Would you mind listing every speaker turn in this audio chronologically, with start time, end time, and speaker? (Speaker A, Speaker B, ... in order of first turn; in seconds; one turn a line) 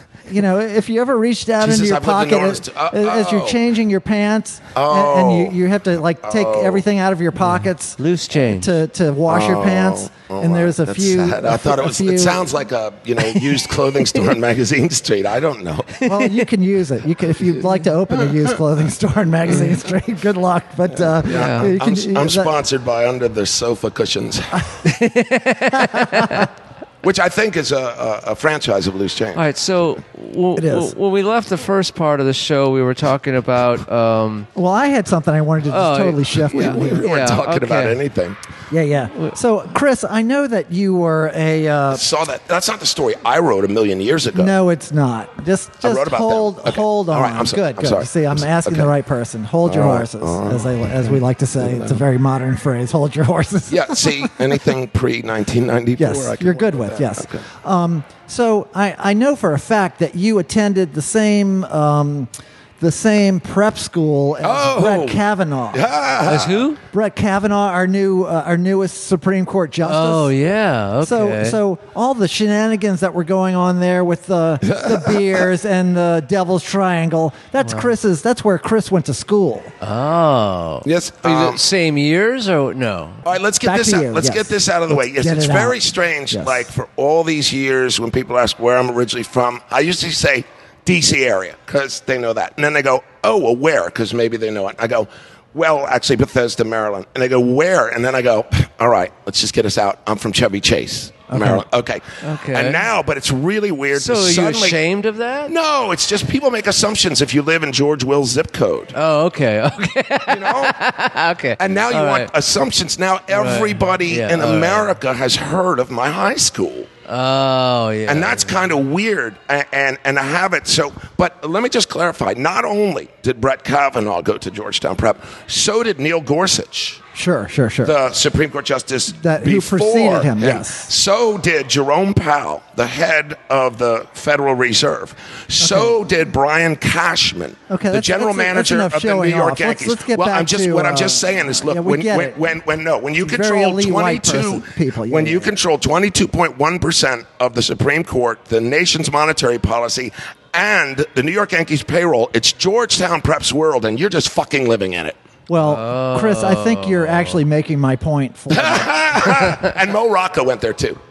Speaker A: 0.3-12.5
Speaker B: 1.6-3.6
Speaker B: 4.7-5.5
Speaker B: 6.2-6.8
Speaker C: 7.4-8.7
Speaker B: 9.3-16.0
Speaker C: 15.9-16.4
Speaker A: 16.0-22.5
Speaker B: 21.2-24.7
Speaker C: 21.3-21.7
Speaker C: 24.8-26.5
Speaker A: 25.8-26.4
Speaker B: 27.0-29.4
Speaker C: 29.3-34.5
Speaker A: 30.6-30.9
Speaker A: 34.5-37.1
Speaker C: 35.7-38.0
Speaker B: 36.5-38.4
Speaker A: 38.7-42.0
Speaker B: 41.9-44.5
Speaker A: 44.3-54.6
Speaker B: 45.8-48.9
Speaker B: 49.6-52.0
Speaker B: 53.7-57.4
Speaker A: 56.0-65.8
Speaker B: 64.4-65.2
Speaker B: 65.7-66.6
Speaker C: 66.2-66.8
Speaker A: 66.8-70.3
Speaker C: 69.8-71.6
Speaker A: 71.0-79.7
Speaker B: 74.6-75.2
Speaker C: 79.8-83.2
Speaker B: 80.8-81.6
Speaker B: 83.2-104.8
Speaker A: 83.6-85.8
Speaker A: 86.3-86.7
Speaker A: 101.3-101.6
Speaker C: 102.2-102.8
Speaker C: 103.9-105.5
Speaker B: 105.5-108.9
Speaker C: 108.9-112.3
Speaker B: 110.3-110.8
Speaker B: 111.6-116.9
Speaker C: 113.3-114.9
Speaker C: 117.1-118.6
Speaker B: 118.1-127.0
Speaker A: 127.1-127.9
Speaker B: 127.8-155.2
Speaker A: 129.1-130.9
Speaker A: 135.6-136.0
Speaker A: 137.7-142.4
Speaker A: 143.2-145.5
Speaker A: 155.5-159.5
Speaker C: 155.6-157.4
Speaker B: 158.5-161.0